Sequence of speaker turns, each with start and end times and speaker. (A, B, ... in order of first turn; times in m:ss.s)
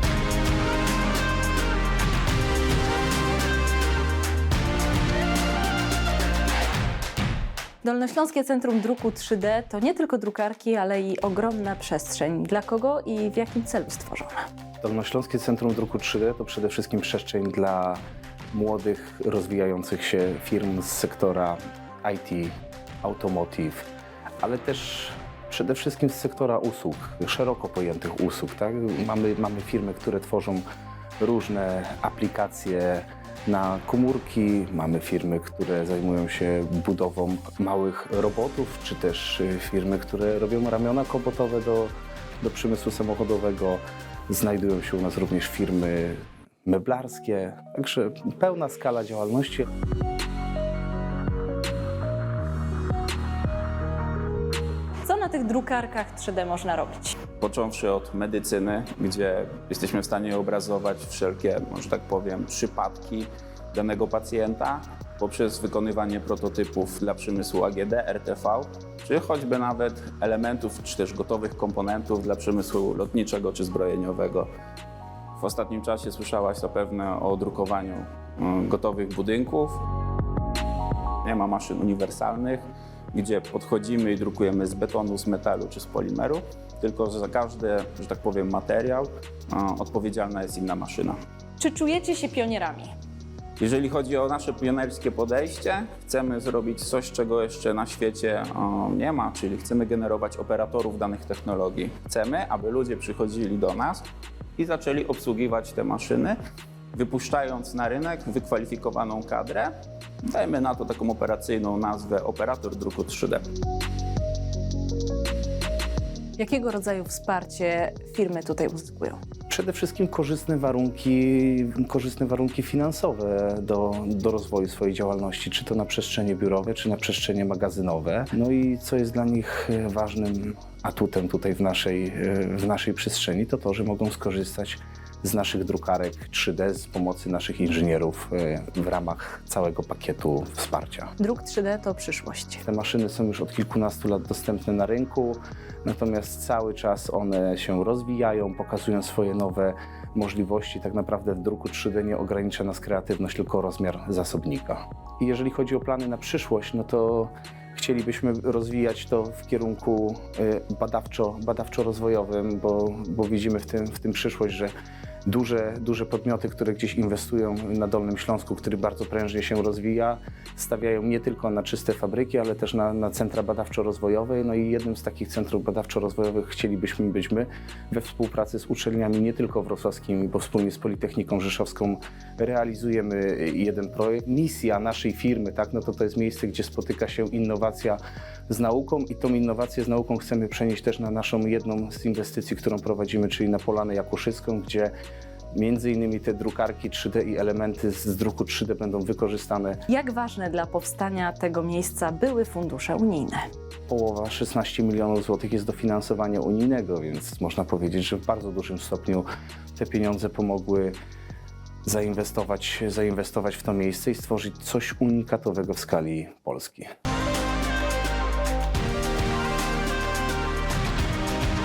0:07.8-0:14.4 A
0:14.8-0:23.9 B
0:24.4-0:30.6 B
0:31.2-0:49.6 B
0:55.0-0:57.1 A
0:57.4-1:14.5 C
1:15.4-1:19.8 C
1:21.2-1:31.2 C
1:31.6-1:32.9 A
1:33.6-1:44.0 C
1:44.6-1:46.4 C
1:46.9-1:49.7 C
1:50.3-1:53.4 C
1:56.4-1:59.2 A
1:59.5-2:21.1 B
2:21.2-2:22.6 A
2:22.6-2:44.7 B
2:45.2-3:14.9 B
3:15.5-3:19.8 B
3:19.9-3:23.4 A
3:23.9-3:31.0 B
3:31.8-3:36.9 B